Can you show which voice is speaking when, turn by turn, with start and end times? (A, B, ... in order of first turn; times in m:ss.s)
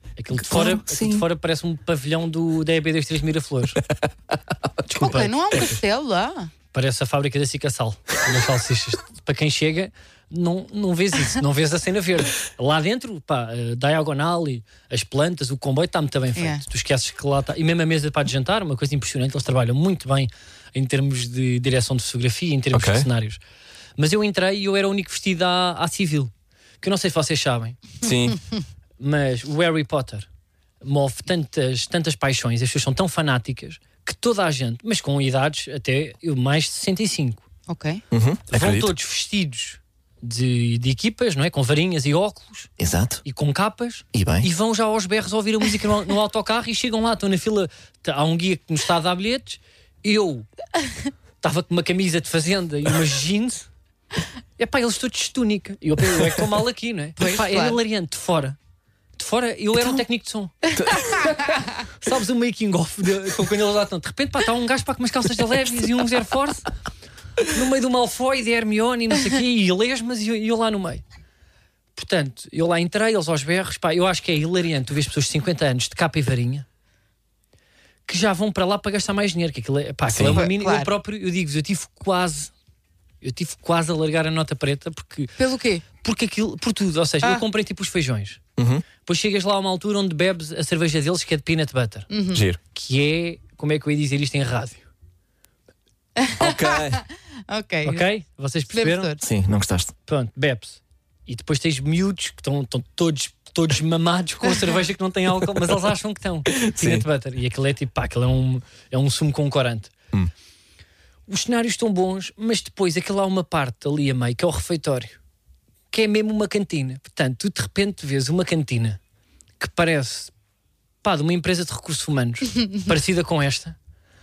0:00.2-0:03.8 A
0:00.3-0:01.2 B
0:04.6-0:04.9 B
0:04.9-0:05.8 A
0:04.9-0:06.5 C
0:06.7-0:23.4 A
0:16.4-0:16.6 C
0:22.7-0:23.1 B
0:24.0-0:27.8 A
0:28.0-0:28.4 B
0:29.0-0:30.3 A
0:30.8-0:37.4 A
0:37.7-0:38.0 C
0:38.1-0:38.9 B
0:38.5-0:42.7 A
0:42.8-0:43.2 B
0:43.2-0:50.5 A
0:44.1-0:44.5 B
0:51.4-0:53.7 A
0:54.6-0:58.6 A
0:57.2-0:57.8 C
0:59.2-1:06.7 A
1:00.6-1:01.7 C
1:00.7-1:01.3 B
1:07.4-1:11.0 A
1:12.0-1:16.6 A
1:18.1-1:22.5 A
1:20.1-1:20.4 B
1:20.2-1:20.9 C
1:23.2-1:25.4 A
1:25.4-1:25.8 C
1:26.0-1:28.4 A
1:28.6-1:28.8 B
1:29.0-1:32.1 A
1:32.1-1:32.4 C
1:32.3-1:32.6 B
1:32.7-1:34.8 A
1:36.2-1:38.1 C
1:36.4-1:37.0 B
1:37.8-1:39.1 A
1:38.7-1:39.2 C
1:39.2-1:39.9 B
1:40.1-1:49.9 A
1:46.5-1:47.1 B
1:51.3-1:55.2 A
1:55.9-1:59.0 A
1:59.6-2:00.3 A
2:01.0-2:03.8 A